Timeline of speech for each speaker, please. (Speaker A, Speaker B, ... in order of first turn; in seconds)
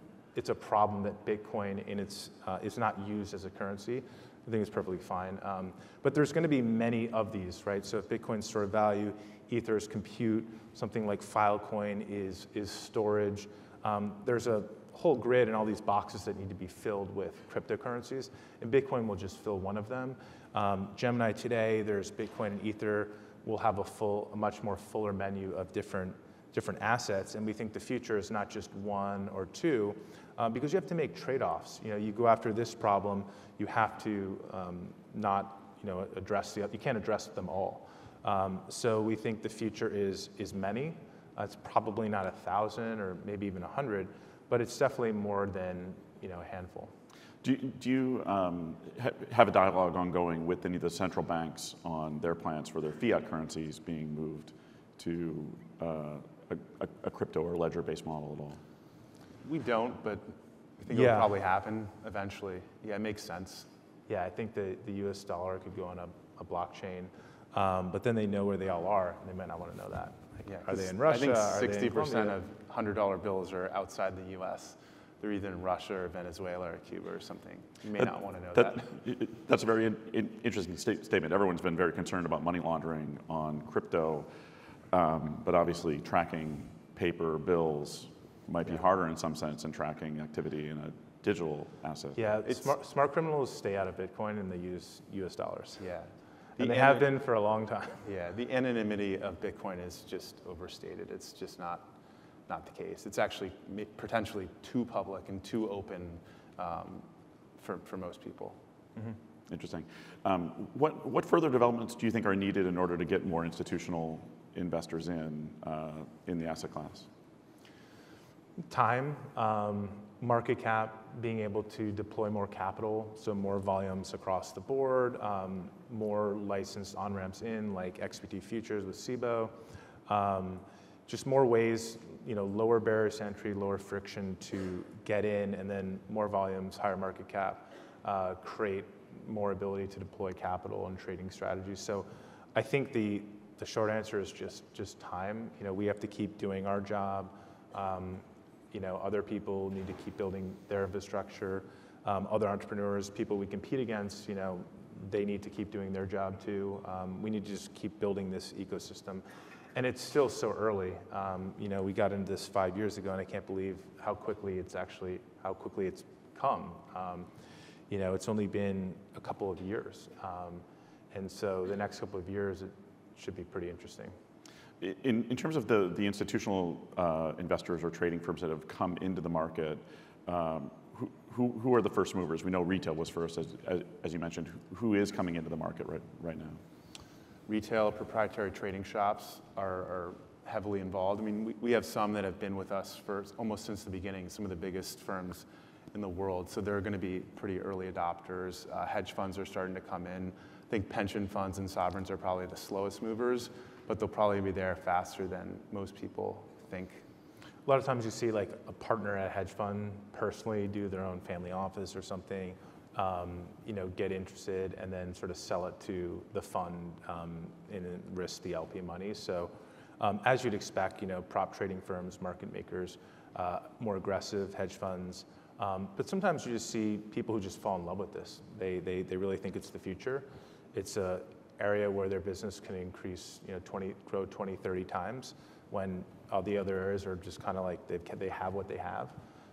Speaker A: 0.3-46.9, 60.9-61.3, 64.1-72.4, 92.2-95.9, 96.6-98.0, 118.7-129.5, 130.1-159.2, 159.8-167.3, 167.9-174.2, 207.7-239.1
Speaker B: 47.4-58.6, 78.5-84.3, 84.9-92.2, 109.5-117.1, 174.8-186.6
Speaker C: 59.4-63.7, 70.5-78.9, 95.8-97.1, 98.0-101.9, 102.5-107.1, 107.6-108.6, 187.5-207.0